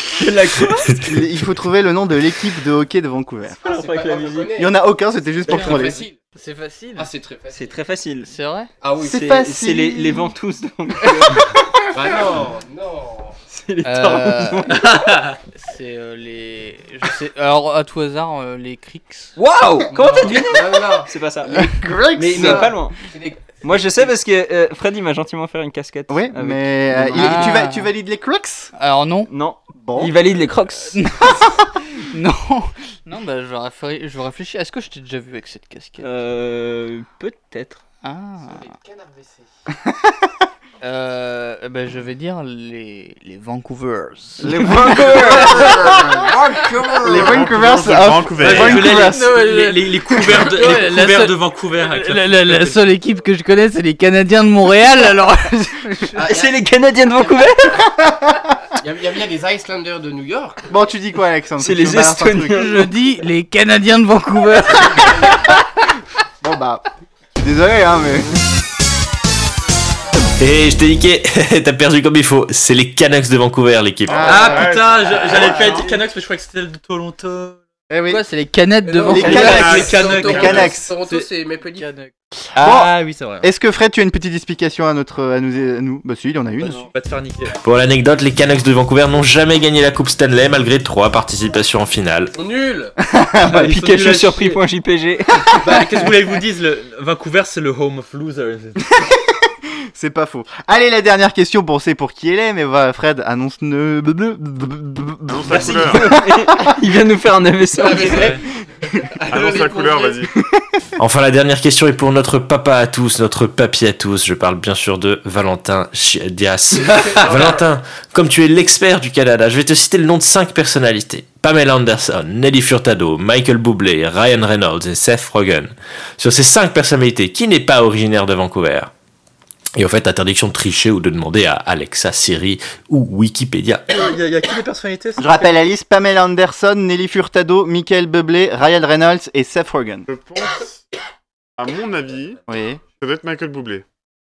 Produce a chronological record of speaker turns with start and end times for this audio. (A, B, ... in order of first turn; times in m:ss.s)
0:00.1-0:00.9 A
0:00.9-0:01.2 B
0:01.0-0:03.6 C
0:03.6-0:04.5 A
0:03.6-0:04.7 D
0:04.6-0:06.0 C
0:05.4-0:06.2 D
0:05.5-0:07.1 E
0:07.0-0:07.8 D
0:07.5-0:08.3 A
0:08.2-0:08.7 E
0:08.8-0:09.2 D
0:09.0-0:10.3 C
0:09.0-0:11.4 A
0:11.9-0:13.4 D
0:13.5-0:14.9 A
0:13.8-0:14.9 E
0:14.7-0:15.4 F
0:15.5-0:19.3 E
0:19.4-0:23.0 A
0:19.9-0:21.1 D
0:21.5-0:22.7 C
0:22.3-0:23.4 D
0:23.6-0:27.6 A
0:26.1-0:28.7 C
0:27.1-0:27.9 E
0:28.8-0:29.3 E
0:29.3-0:31.0 A
0:29.8-0:30.1 C
0:30.8-0:36.1 E
0:36.0-0:37.8 A
0:38.0-0:38.6 E
0:38.4-0:39.5 D
0:39.7-0:40.3 C
0:40.8-0:45.7 E
0:44.4-0:46.3 C
0:44.5-0:45.7 A
0:45.3-0:47.5 D
0:47.0-0:49.3 C
0:47.0-0:48.9 G
0:48.4-0:52.8 F
0:48.8-0:56.2 E
0:56.1-0:56.6 D
0:56.2-0:57.8 A
0:57.7-0:58.6 C
0:58.8-1:00.6 D
1:00.7-1:02.7 C
1:01.6-1:02.8 A
1:02.5-1:05.6 E
1:06.4-1:06.8 C
1:07.4-1:08.4 C
1:10.4-1:14.4 B
1:14.1-1:15.9 G
1:14.1-1:14.8 C
1:14.2-1:17.6 F
1:17.9-1:18.2 C
1:18.1-1:19.9 E
1:18.8-1:21.9 D
1:19.1-1:20.9 C
1:19.2-1:21.2 F
1:19.4-1:19.9 G
1:21.8-1:22.1 E
1:22.5-1:23.5 F
1:22.6-1:26.9 C
1:26.9-1:27.6 F
1:27.6-1:32.3 B
1:32.3-1:32.9 D
1:33.1-1:33.7 C
1:33.5-1:34.6 F
1:33.5-1:35.5 A
1:35.6-1:38.9 F
1:39.0-1:46.7 C
1:45.3-1:46.1 G
1:45.5-1:48.4 A
1:47.7-1:50.3 D
1:48.1-1:48.4 F
1:49.3-1:50.3 G
1:51.0-2:08.9 B
1:56.8-1:57.4 F
2:09.8-2:14.0 B
2:13.9-2:15.4 F
2:15.2-2:20.1 C
2:20.1-2:20.8 G
2:21.6-2:23.8 G
2:22.4-2:22.8 C